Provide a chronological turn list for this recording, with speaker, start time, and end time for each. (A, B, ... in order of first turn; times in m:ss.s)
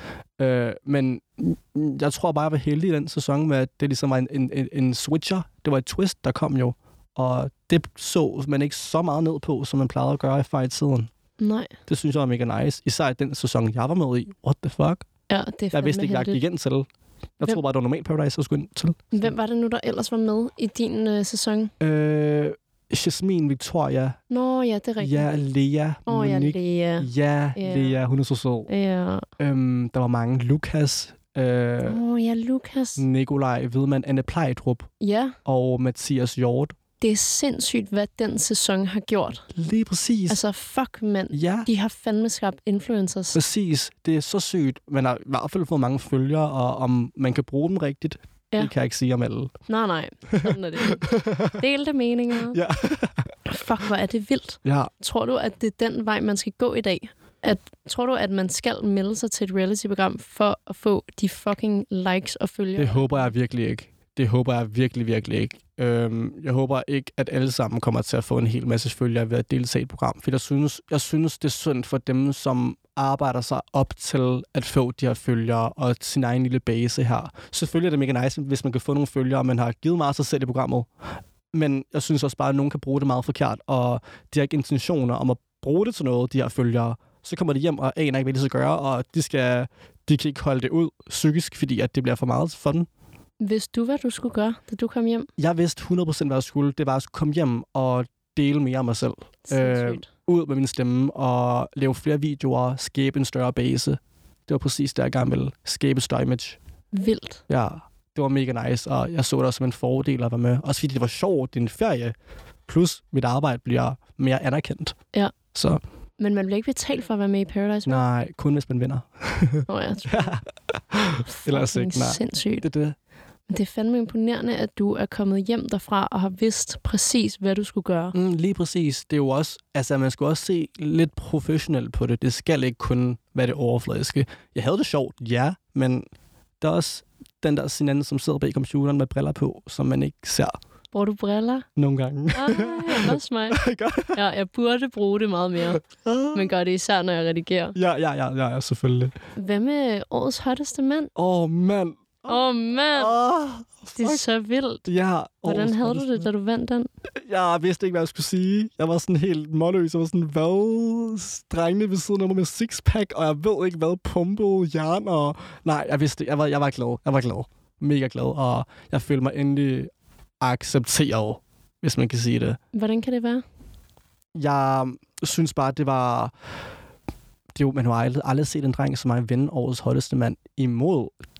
0:00.4-0:11.1 A
0:11.4-0:11.7 B
0:11.9-0:15.1 A
0:15.3-0:16.4 B
0:15.7-0:16.9 A
0:17.4-0:19.3 A
0:19.1-0:21.7 B
0:21.8-0:24.2 A
0:24.3-0:25.3 B
0:25.0-0:28.7 A
0:26.1-0:28.0 B
0:28.7-0:29.3 B
0:29.4-0:32.0 A
0:31.8-0:33.0 B
0:33.0-0:34.9 A
0:35.0-0:35.4 B
0:35.4-0:36.8 A
0:37.0-0:39.5 B
0:39.5-0:40.4 A
0:40.3-0:43.4 B
0:41.3-0:41.7 A
0:43.3-0:49.6 A
0:49.7-0:52.6 B
0:50.3-0:51.6 A
0:52.5-0:53.3 A
0:53.5-1:03.3 B
0:54.6-0:54.9 A
1:02.8-1:20.9 A
1:21.5-1:32.9 A
1:33.4-1:35.3 B
1:35.4-1:46.6 A
1:39.5-1:40.1 B
1:46.9-1:47.4 B
1:47.5-1:52.2 A
1:52.7-1:55.0 A
1:55.5-1:55.8 A
1:56.2-1:58.0 B
1:57.9-2:03.0 A
1:59.7-2:00.4 B
2:01.3-2:02.7 B
2:03.5-2:08.2 B
2:08.1-2:16.0 A
2:16.6-2:20.5 A
2:20.9-2:21.7 B
2:21.8-2:24.2 A
2:22.3-2:23.6 B
2:24.1-2:25.8 B
2:25.6-2:26.6 A
2:26.3-2:27.8 B
2:27.8-2:29.2 A
2:29.4-2:31.1 B
2:31.2-2:32.4 A
2:32.2-2:33.2 B
2:32.9-2:34.2 A
2:34.0-2:34.9 B
2:34.9-2:36.3 A
2:35.4-2:36.9 B
2:37.2-2:52.6 A
2:52.7-2:53.4 B
2:54.4-2:56.3 A
2:57.6-3:01.1 A